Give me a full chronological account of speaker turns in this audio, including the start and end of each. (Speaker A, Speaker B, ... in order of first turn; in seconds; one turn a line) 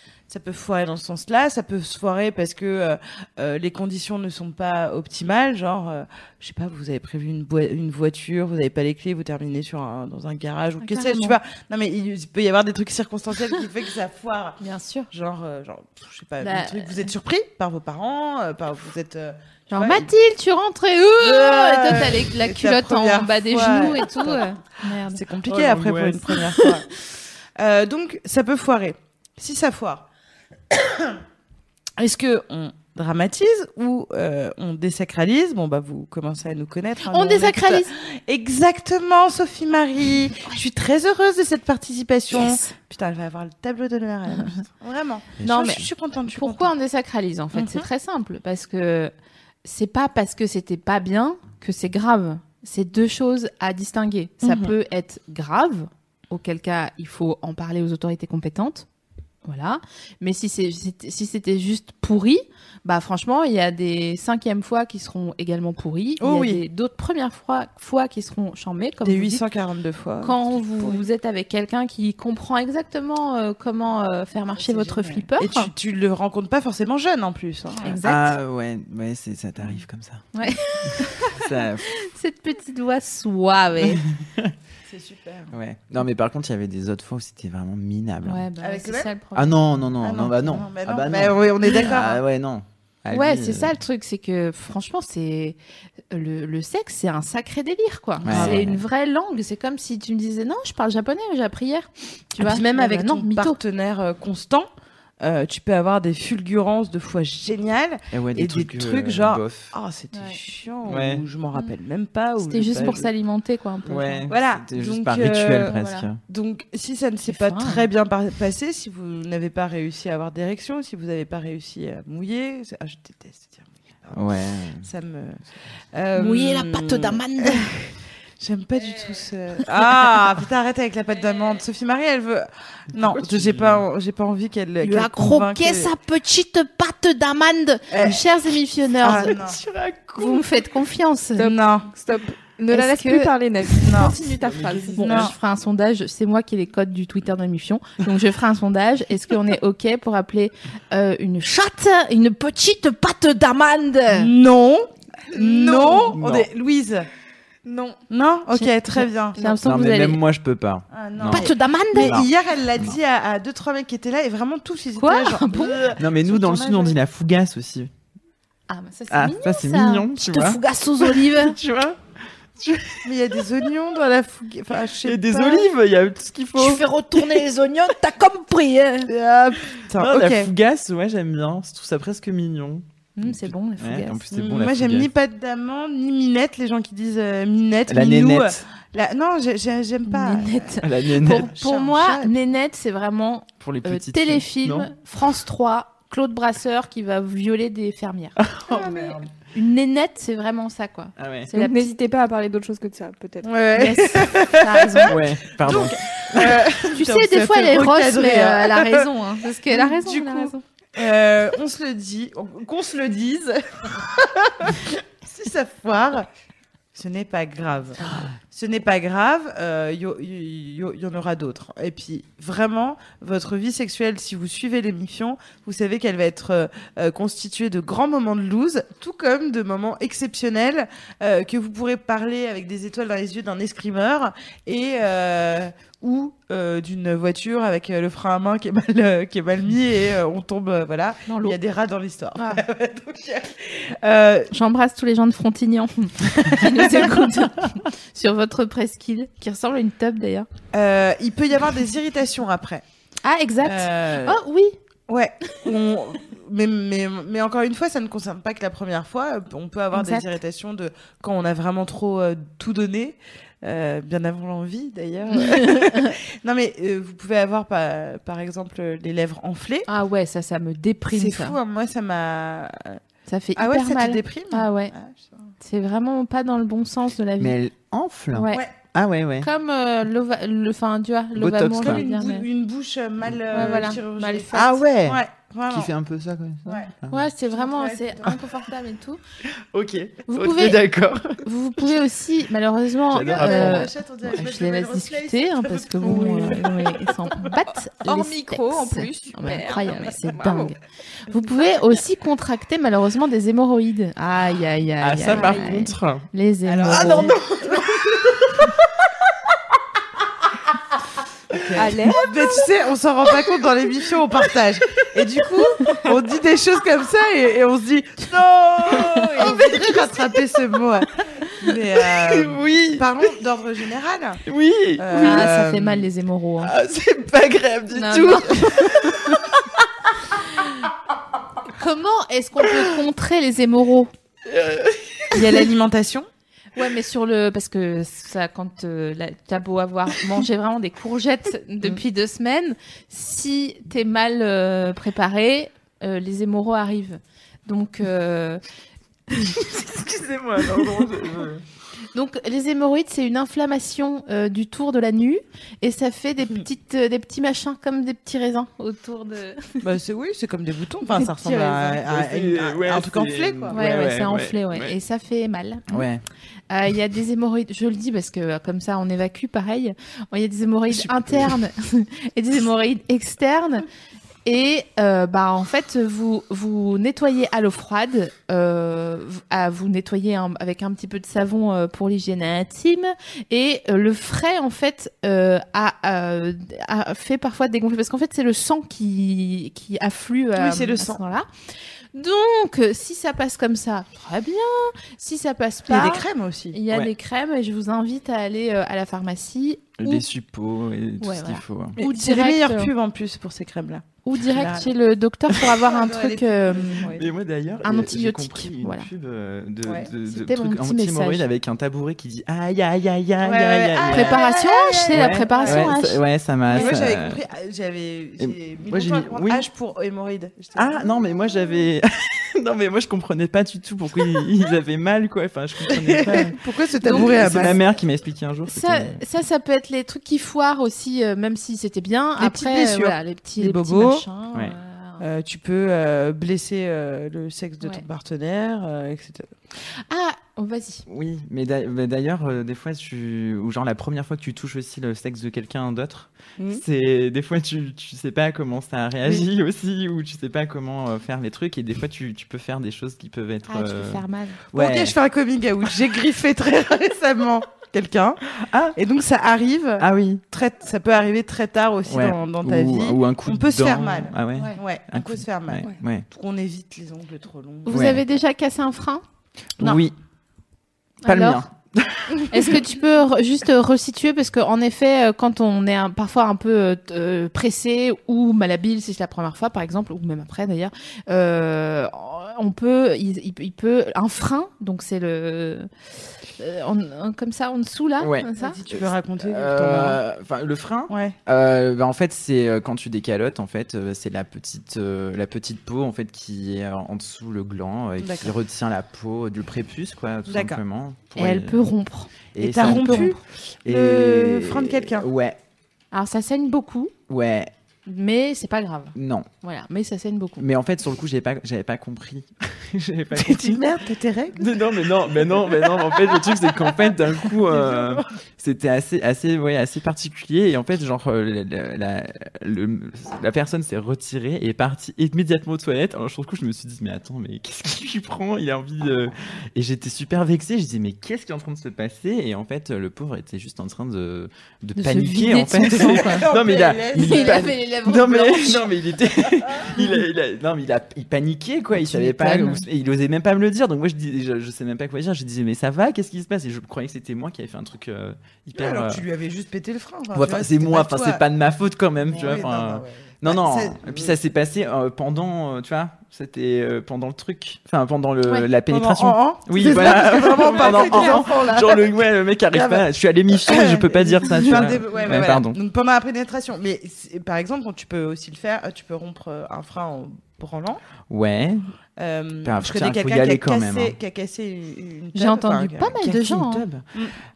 Speaker A: 0.3-14.6
Speaker B: 10.8-11.3
Speaker B: 14.6-15.1
Speaker A: 15.1-20.1
Speaker B: 16.4-17.1
Speaker B: 19.7-25.2
Speaker A: 21.2-26.9
Speaker C: 25.4-26.4
Speaker B: 26.3-26.7
Speaker A: 27.6-30.1
Speaker A: 30.7-31.2
Speaker A: 32.0-46.7
Speaker B: 37.0-37.9
Speaker B: 42.3-42.7
Speaker C: 45.4-45.8
Speaker B: 45.4-49.1
Speaker A: 47.5-47.9
Speaker B: 49.6-58.9
Speaker A: 54.4-54.7
Speaker B: 59.4-69.4
Speaker A: 66.2-66.6
Speaker A: 69.0-71.0
Speaker B: 70.2-75.7
Speaker A: 74.6-78.0
Speaker B: 77.8-78.3
Speaker C: 78.0-80.2
Speaker B: 80.3-84.0
Speaker C: 80.8-81.9
Speaker C: 83.8-84.5
Speaker A: 84.9-85.5
Speaker C: 85.5-88.4
Speaker B: 88.2-89.6
Speaker A: 88.6-89.1
Speaker C: 89.3-93.7
Speaker A: 90.0-92.2
Speaker B: 93.1-95.6
Speaker B: 96.1-103.6
Speaker A: 98.2-98.6
Speaker C: 98.2-98.8
Speaker A: 102.4-104.7
Speaker A: 105.2-113.1
Speaker C: 108.1-109.7
Speaker B: 110.1-110.4
Speaker C: 110.8-111.2
Speaker B: 112.4-114.3
Speaker C: 113.8-116.2
Speaker A: 114.3-125.4
Speaker B: 115.6-116.1
Speaker B: 117.3-117.8
Speaker C: 124.1-124.9
Speaker A: 125.9-135.9
Speaker B: 126.1-127.7
Speaker C: 132.9-133.8
Speaker B: 134.8-139.3
Speaker A: 137.9-138.2
Speaker A: 139.0-139.6
Speaker C: 139.2-140.5
Speaker B: 140.2-141.5
Speaker D: 141.4-145.0
Speaker A: 141.4-141.9
Speaker B: 142.7-143.3
Speaker A: 143.7-144.2
Speaker C: 144.2-145.3
Speaker B: 144.9-154.3
Speaker A: 145.0-145.3
Speaker A: 154.1-157.1
Speaker B: 155.3-156.0
Speaker C: 155.9-156.5
Speaker D: 157.7-158.0
Speaker A: 158.1-159.4
Speaker B: 158.5-160.2
Speaker C: 159.4-163.0
Speaker A: 160.9-167.0
Speaker B: 161.3-162.2
Speaker B: 165.0-165.9
Speaker C: 165.9-167.9
Speaker B: 168.7-171.6
Speaker C: 169.1-172.0
Speaker C: 172.6-173.1
Speaker A: 173.0-175.7
Speaker C: 175.0-177.5
Speaker B: 176.6-179.1
Speaker C: 179.1-185.1
Speaker A: 179.5-180.5
Speaker B: 183.2-184.2
Speaker A: 184.3-192.3
Speaker C: 187.9-188.6
Speaker B: 190.1-201.9
Speaker C: 190.8-191.5
Speaker C: 193.6-194.9
Speaker C: 198.4-199.3
Speaker C: 201.2-201.5
Speaker D: 201.5-203.5
Speaker A: 203.4-216.3
Speaker B: 203.7-205.2
Speaker C: 205.1-206.7
Speaker B: 206.8-210.6
Speaker A: 216.9-244.5
Speaker B: 241.3-241.6
Speaker B: 242.4-242.6
Speaker B: 244.5-250.5
Speaker A: 246.6-247.1
Speaker A: 250.7-252.8
Speaker B: 253.2-254.8
Speaker A: 253.6-254.4
Speaker A: 255.1-269.9
Speaker B: 259.9-260.3
Speaker B: 265.3-266.1
Speaker B: 269.9-271.6
Speaker A: 271.1-273.0
Speaker B: 273.3-274.9
Speaker A: 273.6-275.4
Speaker B: 275.6-277.6
Speaker C: 277.4-279.5
Speaker B: 278.3-278.6
Speaker B: 279.4-282.4
Speaker C: 281.4-282.0
Speaker A: 281.8-285.9
Speaker C: 283.5-283.9
Speaker B: 283.5-284.8
Speaker C: 284.5-287.3
Speaker A: 286.6-286.9
Speaker B: 287.1-289.2
Speaker A: 287.5-288.4
Speaker C: 289.5-291.5
Speaker B: 290.3-290.8
Speaker B: 291.4-307.3
Speaker C: 293.1-293.9
Speaker A: 293.1-296.8
Speaker D: 296.0-296.8
Speaker D: 298.0-300.7
Speaker C: 305.0-306.2
Speaker D: 305.3-305.6
Speaker A: 306.6-308.4
Speaker C: 306.9-308.7
Speaker A: 311.5-324.4
Speaker D: 311.8-312.2
Speaker C: 318.4-320.0
Speaker C: 322.0-323.3
Speaker C: 324.4-325.5
Speaker A: 325.0-326.1
Speaker B: 325.1-326.7
Speaker C: 326.6-330.6
Speaker B: 327.9-329.4
Speaker B: 330.3-330.7
Speaker B: 331.7-334.1
Speaker C: 332.6-332.9
Speaker C: 334.4-335.6
Speaker A: 335.3-336.3
Speaker B: 336.7-348.6
Speaker C: 349.3-351.6
Speaker B: 352.1-359.9
Speaker A: 359.8-363.8
Speaker B: 361.2-361.6
Speaker C: 361.8-364.9
Speaker B: 363.7-366.1
Speaker C: 365.9-366.2
Speaker B: 366.7-373.9
Speaker C: 370.9-371.5
Speaker B: 374.4-391.5
Speaker A: 390.6-391.2
Speaker B: 392.1-400.2
Speaker A: 395.9-396.8
Speaker C: 400.0-402.0
Speaker B: 401.2-402.9
Speaker A: 402.0-404.9
Speaker B: 404.2-407.1
Speaker A: 405.7-407.2
Speaker C: 407.1-414.4
Speaker B: 407.8-409.1
Speaker A: 409.8-410.1
Speaker B: 410.2-411.4
Speaker A: 413.4-415.9
Speaker B: 414.1-416.2
Speaker C: 415.1-417.4
Speaker A: 416.7-421.5
Speaker C: 418.4-419.6
Speaker C: 420.7-429.2
Speaker A: 425.9-427.8
Speaker B: 427.0-427.8
Speaker B: 428.7-435.2
Speaker A: 432.4-434.2
Speaker A: 435.2-439.5
Speaker B: 440.1-441.0
Speaker C: 441.1-455.1
Speaker B: 453.7-454.6
Speaker A: 454.7-468.2
Speaker C: 458.5-458.9
Speaker C: 460.0-460.4
Speaker C: 462.1-466.2
Speaker B: 467.9-469.2
Speaker C: 467.9-468.2
Speaker C: 469.8-470.1
Speaker B: 471.2-471.6
Speaker C: 471.2-472.8
Speaker B: 472.5-485.9
Speaker B: 486.6-488.8
Speaker C: 488.2-501.8
Speaker A: 488.6-490.2
Speaker A: 491.1-491.4
Speaker A: 498.2-498.5
Speaker A: 500.5-500.8
Speaker B: 501.4-503.4
Speaker C: 502.5-505.6
Speaker A: 502.6-505.3
Speaker B: 506.1-507.1
Speaker C: 507.3-507.7
Speaker B: 508.1-510.6
Speaker C: 509.1-509.5
Speaker C: 510.6-513.9
Speaker A: 513.3-517.0
Speaker C: 514.5-549.2
Speaker A: 517.5-518.2
Speaker B: 535.0-536.5
Speaker A: 535.8-537.7
Speaker B: 537.1-539.0
Speaker B: 541.9-542.8
Speaker A: 548.7-551.4
Speaker C: 550.3-565.8
Speaker A: 552.3-554.4
Speaker A: 558.9-562.2
Speaker A: 562.7-571.0
Speaker C: 571.3-571.9
Speaker A: 572.2-576.2
Speaker C: 572.6-574.2
Speaker B: 575.3-576.9
Speaker C: 576.1-577.1